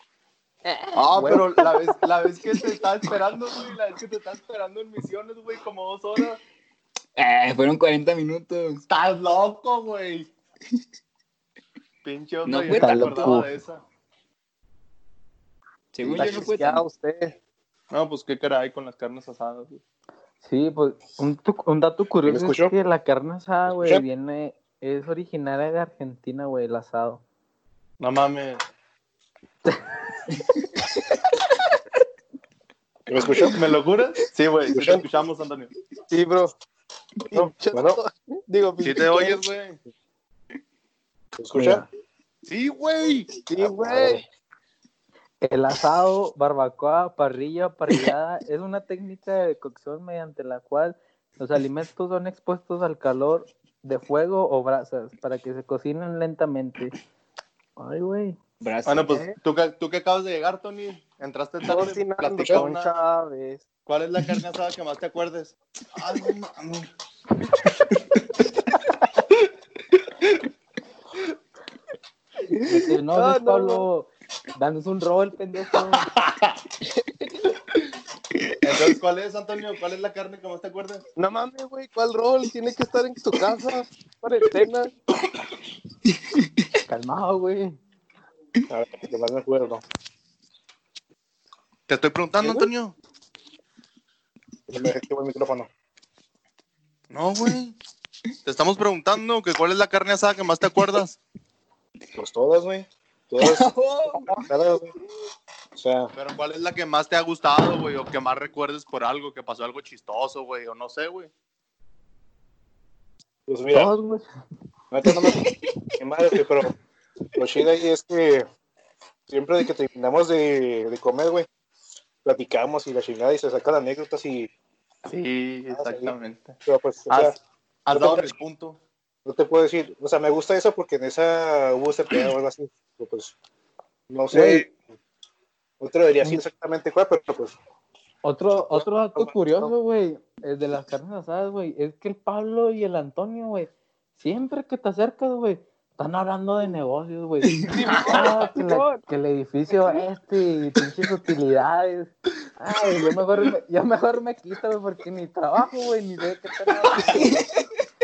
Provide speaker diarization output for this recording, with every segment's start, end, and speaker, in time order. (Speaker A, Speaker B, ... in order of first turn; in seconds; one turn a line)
Speaker A: 0.7-1.6
Speaker B: 0.9-6.4
Speaker C: 7.2-8.8
Speaker B: 8.9-10.3
Speaker B: 12.0-13.8
Speaker C: 12.4-13.4
Speaker D: 12.7-13.5
Speaker C: 15.9-16.8
Speaker B: 16.1-16.4
Speaker A: 16.1-17.4
Speaker B: 17.9-19.8
Speaker D: 20.4-27.2
Speaker E: 22.3-22.7
Speaker E: 23.7-24.0
Speaker B: 28.0-28.6
Speaker E: 33.1-33.6
Speaker B: 33.5-35.7
Speaker E: 34.7-35.0
Speaker A: 36.1-36.5
Speaker A: 37.3-39.4
Speaker E: 37.3-38.0
Speaker B: 38.8-39.8
Speaker E: 41.4-41.9
Speaker D: 41.5-41.9
Speaker B: 42.5-43.3
Speaker A: 43.5-44.2
Speaker E: 43.6-44.2
Speaker D: 45.4-56.9
Speaker D: 57.8-58.4
Speaker C: 58.6-59.2
Speaker B: 58.9-63.0
Speaker A: 61.6-63.6
Speaker B: 63.9-66.9
Speaker B: 67.8-68.2
Speaker A: 72.5-73.8
Speaker D: 72.7-76.1
Speaker B: 76.1-76.6
Speaker A: 76.8-77.4
Speaker B: 78.6-81.0
Speaker A: 81.2-84.9
Speaker D: 86.9-87.8
Speaker E: 88.7-89.8
Speaker B: 91.9-93.0
Speaker E: 94.7-95.7
Speaker B: 97.1-97.8
Speaker B: 98.5-101.2
Speaker E: 102.2-103.7
Speaker C: 103.4-104.4
Speaker E: 104.3-104.9
Speaker E: 105.8-106.1
Speaker B: 106.2-111.3
Speaker E: 113.5-113.9
Speaker D: 113.7-114.3
Speaker E: 114.9-115.5
Speaker C: 115.2-115.5
Speaker E: 116.0-116.7
Speaker E: 117.4-118.5
Speaker E: 119.3-121.5
Speaker E: 122.2-124.5
Speaker B: 125.1-126.6
Speaker E: 125.7-126.1
Speaker E: 126.7-127.4
Speaker B: 127.1-128.8
Speaker E: 127.9-128.3
Speaker E: 129.2-133.3
Speaker E: 134.1-134.8
Speaker D: 134.3-134.6
Speaker E: 135.8-137.6
Speaker D: 138.2-157.4
Speaker E: 138.7-139.7
Speaker A: 147.7-149.0
Speaker B: 148.0-148.3
Speaker A: 149.7-150.0
Speaker A: 156.9-157.3